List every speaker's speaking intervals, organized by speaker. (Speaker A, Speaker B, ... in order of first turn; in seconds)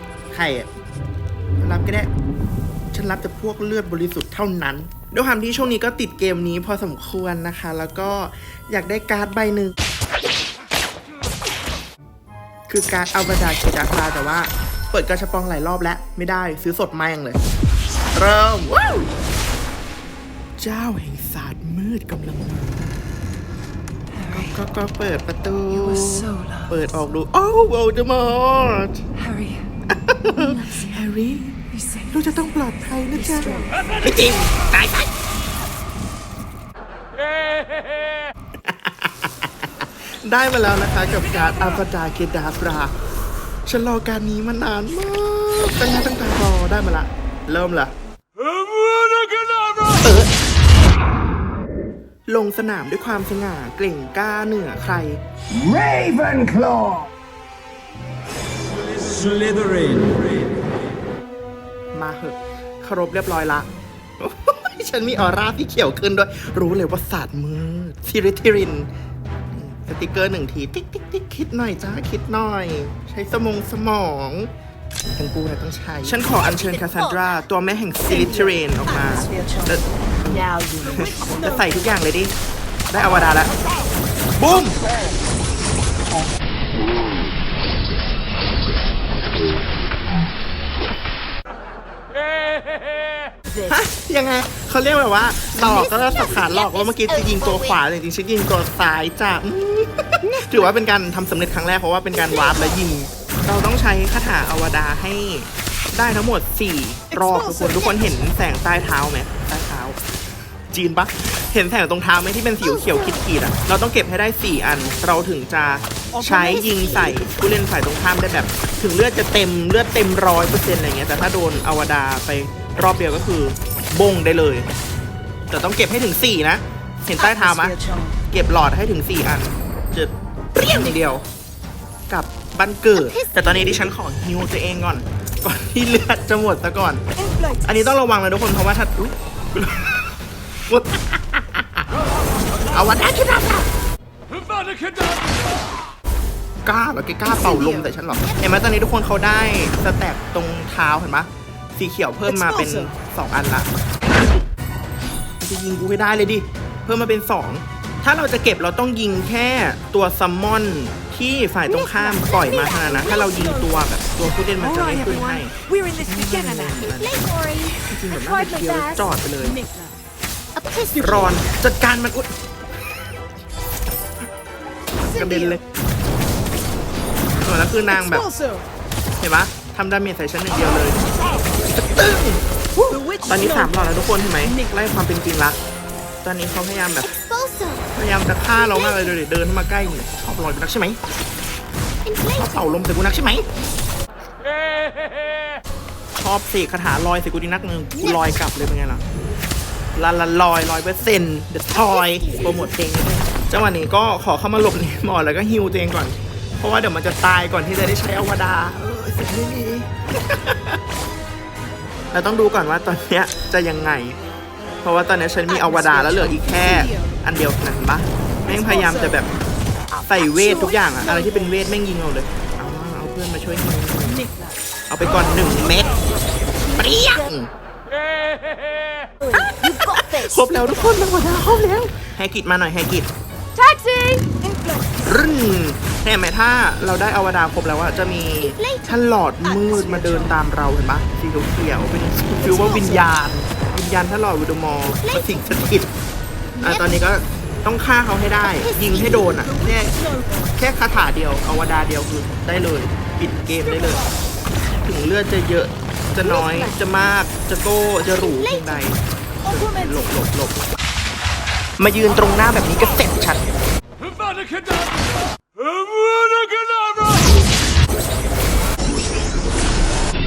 Speaker A: 0.3-0.7, 1.6-2.1, 2.9-9.8, 12.7-17.4, 18.1-19.1, 20.6-23.0, 24.2-29.1, 29.9-35.1, 38.6-42.9, 43.7-47.9, 50.0-50.3, 52.3-55.2, 61.9-68.9, 69.5-74.5, 75.1-82.3, 82.9-83.5, 84.4-84.8, 93.7-110.0, 110.7-124.7, 125.5-127.8, 128.3-131.2, 132.1-137.0, 137.7-140.1, 140.7-141.9, 142.7-143.7, 146.6-154.4, 155.4-167.3, 167.8-169.6, 171.0-172.3, 175.1-175.6, 177.4-178.3, 179.2-181.0, 181.7-185.6, 186.2-187.2, 187.9-191.0, 192.3-193.5, 196.2-199.0, 199.9-210.8, 212.1-214.2, 214.8-219.3, 220.1-224.2, 224.9-226.0, 226.8-227.5, 229.3-233.1, 235.1-245.9, 246.6-249.9, 250.6-254.1, 254.8-260.6, 261.8-263.4
Speaker B: 26.0-26.6, 29.2-29.7, 78.1-81.8, 107.2-107.7, 116.2-116.5, 127.2-128.2, 152.3-152.9, 169.5-169.9, 175.1-175.6, 178.0-178.6, 182.9-183.8, 184.4-184.7, 215.5-217.1, 218.5-219.1, 220.4-221.4, 224.1-224.5, 234.4-235.0, 239.5-240.3, 242.4-243.0, 249.5-250.5, 259.5-259.9
Speaker C: 55.7-57.0, 164.7-166.8
Speaker D: 76.2-77.2, 95.6-97.8, 102.4-102.6, 112.6-113.2, 116.4-117.2, 133.0-133.8, 147.5-148.5, 162.2-163.2, 166.9-169.0, 170.6-171.4, 187.1-187.9, 188.7-189.1, 192.1-192.6, 202.2-202.5, 229.2-230.1, 233.6-234.3, 238.4-239.0, 245.0-245.4, 248.6-248.9, 256.2-256.6, 258.3-258.8